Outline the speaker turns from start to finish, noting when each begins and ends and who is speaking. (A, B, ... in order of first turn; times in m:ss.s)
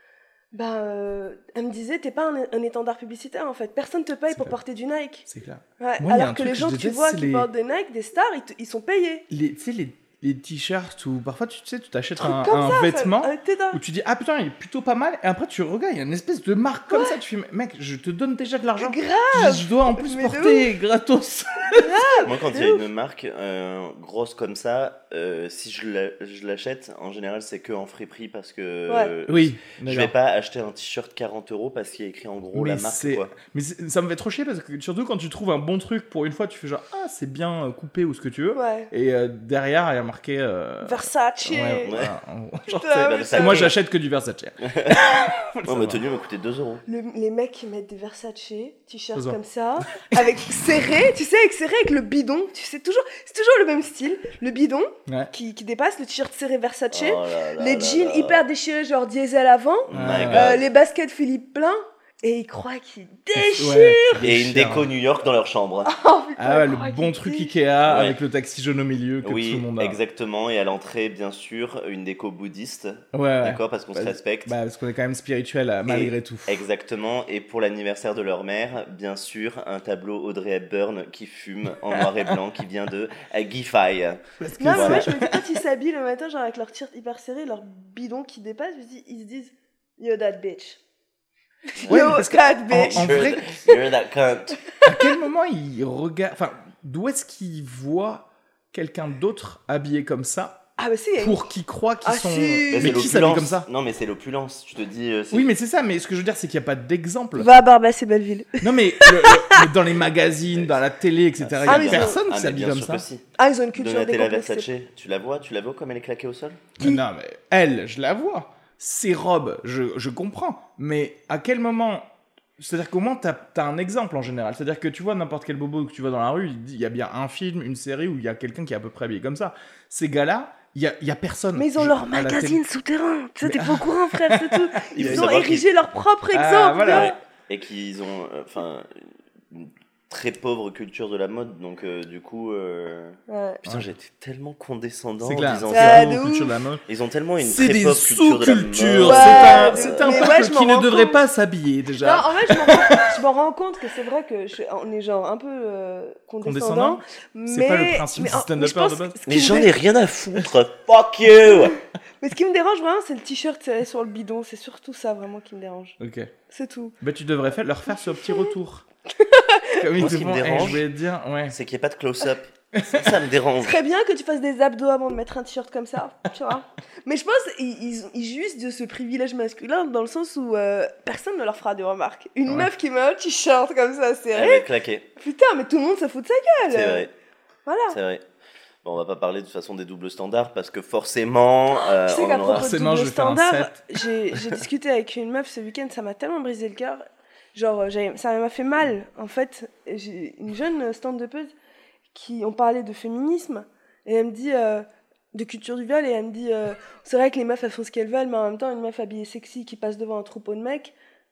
0:00.5-0:05.3 A
0:04.3-0:04.6 B
0:05.3-0:07.5 B
0:05.8-0:09.2 A
0:09.3-0:22.2 B
0:12.2-0:13.8 A
0:16.9-0:17.2 A
0:18.8-0:20.7 A
0:21.7-0:22.8 A
0:22.2-0:33.3 C
0:29.3-0:30.1 B
0:32.5-0:46.0 B
0:38.5-0:38.9 A
0:40.8-0:41.9 A
0:41.8-0:42.1 C
0:42.7-0:43.7 A
0:43.0-0:43.7 C
0:44.6-0:45.0 C
0:45.6-0:46.8 C
0:46.9-1:04.2 A
0:50.0-0:50.7 B
0:56.9-0:58.4 C
0:59.9-1:00.6 C
0:59.9-1:00.6 B
1:03.4-1:04.9 B
1:04.2-1:05.9 C
1:05.8-1:07.6 A
1:06.4-1:10.0 B
1:07.9-1:08.2 C
1:09.2-1:14.5 C
1:13.1-1:16.6 B
1:15.8-1:25.1 C
1:24.4-1:25.4 B
1:24.6-1:30.8 A
1:31.7-1:33.8 A
1:31.8-1:34.6 C
1:31.9-1:33.4 B
1:34.8-1:35.1 A
1:34.8-1:40.6 B
1:40.8-1:41.5 A
1:41.2-1:43.7 B
1:42.0-1:43.1 A
1:42.7-1:45.5 C
1:45.3-1:47.5 B
1:47.4-1:49.7 A
1:48.6-1:53.0 B
1:50.5-1:50.8 C
1:51.4-1:53.2 C
1:51.7-1:52.2 A
1:53.4-1:54.7 A
1:53.7-1:56.6 C
1:56.8-2:02.1 B
2:02.6-2:12.6 B
2:11.6-2:17.1 A
2:13.4-2:15.3 B
2:15.0-2:15.7 C
2:16.3-2:17.1 B
2:16.8-2:26.2 C
2:23.3-2:23.6 A
2:25.2-2:26.8 B
2:25.7-2:26.5 A
2:26.8-2:30.3 C
2:27.4-2:33.2 B
2:29.0-2:31.2 A
2:32.0-2:39.7 A
2:36.4-2:39.2 B
2:39.2-2:41.8 C
2:41.5-2:46.0 A
2:46.0-2:46.3 B
2:46.5-2:46.9 A
2:47.0-2:48.8 B
2:47.9-2:48.5 A
2:49.1-2:49.8 A
2:49.8-2:51.6 B
2:49.9-2:50.8 C
2:51.5-2:53.8 C
2:52.7-2:53.0 B
2:53.6-3:04.6 A
3:04.3-3:05.0 C
3:05.2-3:07.1 A
3:06.7-3:07.1 C
3:07.6-3:08.0 A
3:07.9-3:08.2 C
3:08.8-3:12.7 C
3:11.8-3:17.0 A
3:12.5-3:13.7 B
3:17.5-3:21.5 A
3:22.1-3:30.9 A